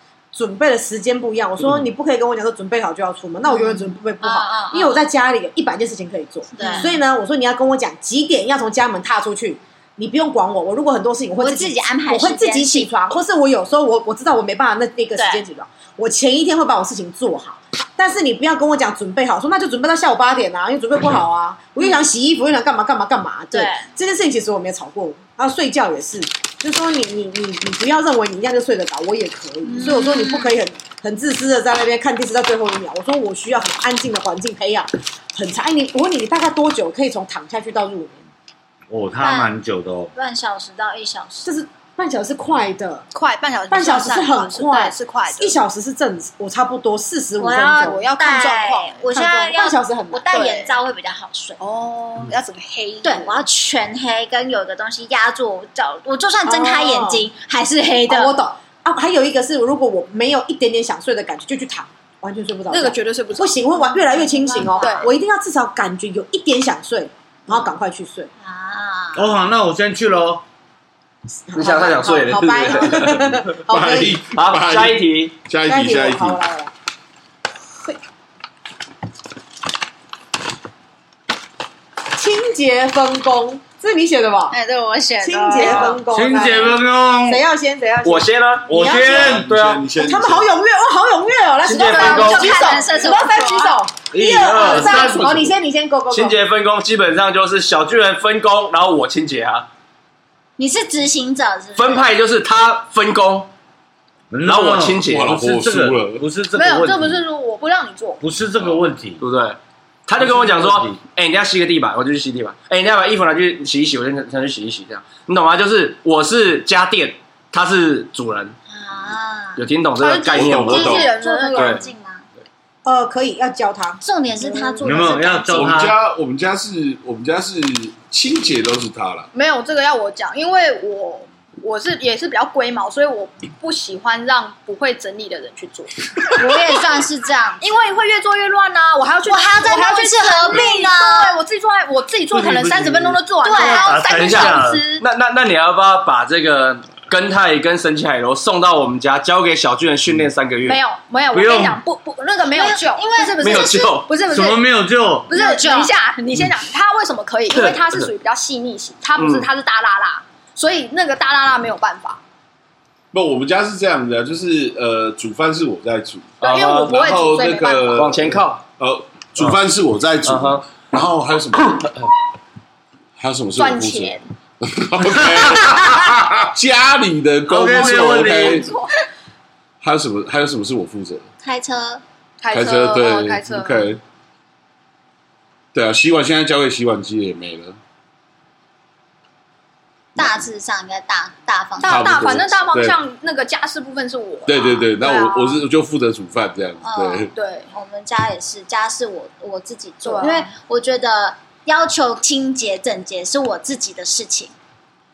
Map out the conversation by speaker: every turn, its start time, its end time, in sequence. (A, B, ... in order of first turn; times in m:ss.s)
0:00.3-0:38.2 A
0:03.5-0:05.0 B
0:06.6-0:07.0 B
0:06.6-0:07.0 C
0:11.4-0:12.9 B
0:15.1-0:15.4 B
0:21.8-0:22.0 B
0:23.5-0:23.9 B
0:29.6-0:30.5 B
0:38.9-0:40.1 D
0:39.2-0:39.6 B
0:40.1-0:41.5 B
0:41.4-0:43.0 A
0:43.1-0:45.6 C
0:43.7-0:48.0 A
0:47.4-0:51.6 B
0:47.7-0:49.1 C
0:49.1-0:50.3 A
0:50.3-0:50.7 C
0:51.6-0:53.4 C
0:53.0-0:58.3 B
0:56.5-0:57.2 A
0:58.1-1:08.3 A
1:02.7-1:03.6 C
1:03.7-1:05.1 B
1:04.8-1:05.1 C
1:08.4-1:09.3 B
1:09.1-1:10.4 D
1:11.5-1:14.2 A
1:11.5-1:13.4 E
1:13.3-1:16.4 F
1:14.3-1:15.3 E
1:15.6-1:16.7 A
1:22.1-1:24.6 A
1:24.5-1:26.0 B
1:25.2-1:29.4 A
1:25.6-1:26.0 E
1:26.1-1:27.4 D
1:28.0-1:29.8 E
1:28.8-1:29.3 D
1:29.1-1:30.5 F
1:29.9-1:36.4 A
1:31.6-1:32.7 E
1:31.9-1:33.2 C
1:31.9-1:33.8 B
1:34.1-1:35.3 D
1:34.4-1:35.1 E
1:34.8-1:35.5 F
1:36.1-1:39.7 E
1:40.6-1:42.0 B
1:41.8-1:43.5 E
1:44.3-1:47.2 D
1:44.4-1:45.3 E
1:45.0-1:46.2 F
1:46.5-1:48.2 C
1:48.2-1:49.2 D
1:49.2-1:58.5 E
1:50.2-1:51.0 D
1:58.7-1:59.6 B
1:59.6-2:01.8 E
2:00.0-2:01.9 C
2:00.3-2:01.1 F
2:00.9-2:02.2 B
2:02.8-2:04.0 A
2:04.0-2:05.7 B
2:04.8-2:05.9 D
2:05.5-2:09.3 F
2:09.3-2:16.7 C
2:16.3-2:17.7 B
2:17.6-2:25.0 C
2:19.2-2:21.3 B
2:22.3-2:24.8 D
2:23.4-2:24.0 B
2:24.1-2:30.8 E
2:30.6-2:34.7 C
2:31.3-2:31.8 D
2:32.5-2:33.8 B
2:33.4-2:34.1 E
2:34.3-2:35.3 D
2:35.3-2:42.2 C
2:35.3-2:35.9 B
2:37.5-2:38.1 E
2:39.2-2:39.5 E
2:43.1-2:51.9 F
2:46.4-2:47.0 E
2:46.4-2:48.0 C
2:47.9-2:48.6 E
2:50.2-2:50.8 E
2:51.6-2:52.1 E
2:53.2-2:58.7 F
2:53.6-2:54.2 C
2:55.0-2:56.4 D
2:57.5-2:58.6 D
2:57.6-2:59.0 C
2:59.8-3:01.2 F
3:01.4-3:02.0 B
3:02.4-3:03.9 C
3:02.5-3:04.0 F
3:05.7-3:07.8 F
3:10.2-3:10.4 F
3:10.2-3:12.5 B
3:11.8-3:15.6 C
3:11.8-3:13.0 F
3:14.4-3:17.3 F
3:16.8-3:24.5 B
3:17.3-3:17.7 C
3:20.0-3:20.5 C